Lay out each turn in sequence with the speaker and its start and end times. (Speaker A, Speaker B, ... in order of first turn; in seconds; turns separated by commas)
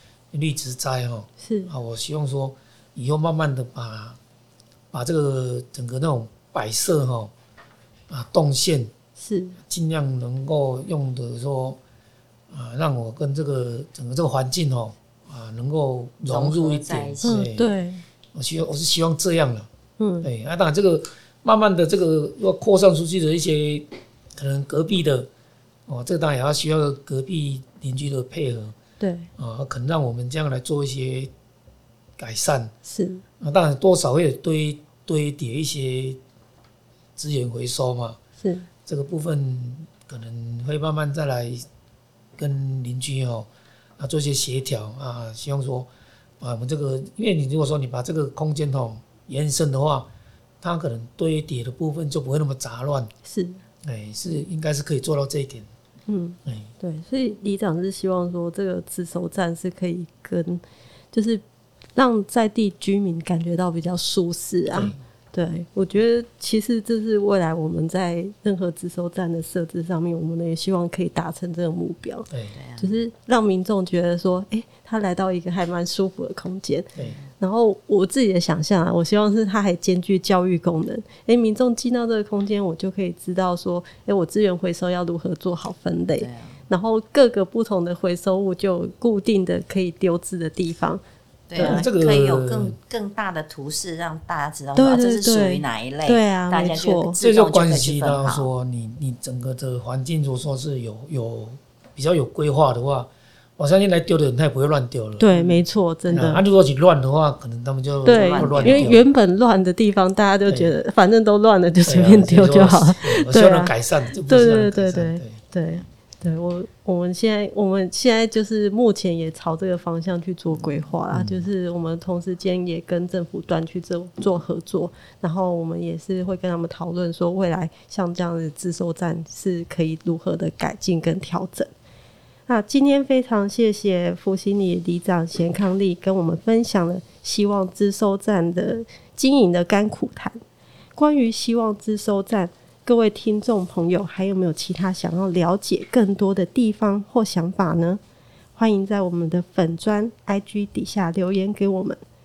Speaker A: 0.3-4.2, Speaker B: 1.4-1.7, Speaker A: 4.9-7.3, Speaker A: 8.1-8.9, Speaker B: 9.2-9.6, Speaker A: 9.7-11.8, Speaker A: 12.5-17.7, Speaker C: 16.3-17.5, Speaker B: 17.2-18.0, Speaker A: 18.3-19.7, Speaker B: 20.0-20.3, Speaker A: 20.2-25.3, Speaker A: 25.9-28.8, Speaker B: 29.0-29.3, Speaker A: 29.4-31.3, Speaker A: 32.2-32.7, Speaker B: 32.8-33.2, Speaker A: 33.4-36.2, Speaker A: 37.2-38.2, Speaker B: 38.4-38.7, Speaker A: 38.9-41.6, Speaker A: 42.4-43.5, Speaker A: 44.0-45.9, Speaker A: 46.4-50.1, Speaker A: 50.6-53.1, Speaker B: 53.2-53.6, Speaker A: 53.8-55.7, Speaker B: 56.1-61.4, Speaker A: 56.5-56.7, Speaker B: 62.0-91.0, Speaker A: 64.7-65.0, Speaker A: 72.3-72.5, Speaker C: 72.5-73.0, Speaker C: 77.0-77.2, Speaker C: 86.2-86.6, Speaker C: 91.5-98.5, Speaker B: 91.5-91.8, Speaker A: 91.6-92.8, Speaker B: 94.8-97.2, Speaker A: 97.2-105.3, Speaker B: 105.2-106.4, Speaker C: 105.3-105.6, Speaker A: 106.1-109.0, Speaker B: 108.0-113.7, Speaker C: 108.1-108.9, Speaker A: 110.5-110.7, Speaker A: 111.8-115.4, Speaker B: 114.3-131.7, Speaker A: 121.1-121.5, Speaker B: 132.5-140.4, Speaker B: 140.9-148.0, Speaker B: 148.6-152.0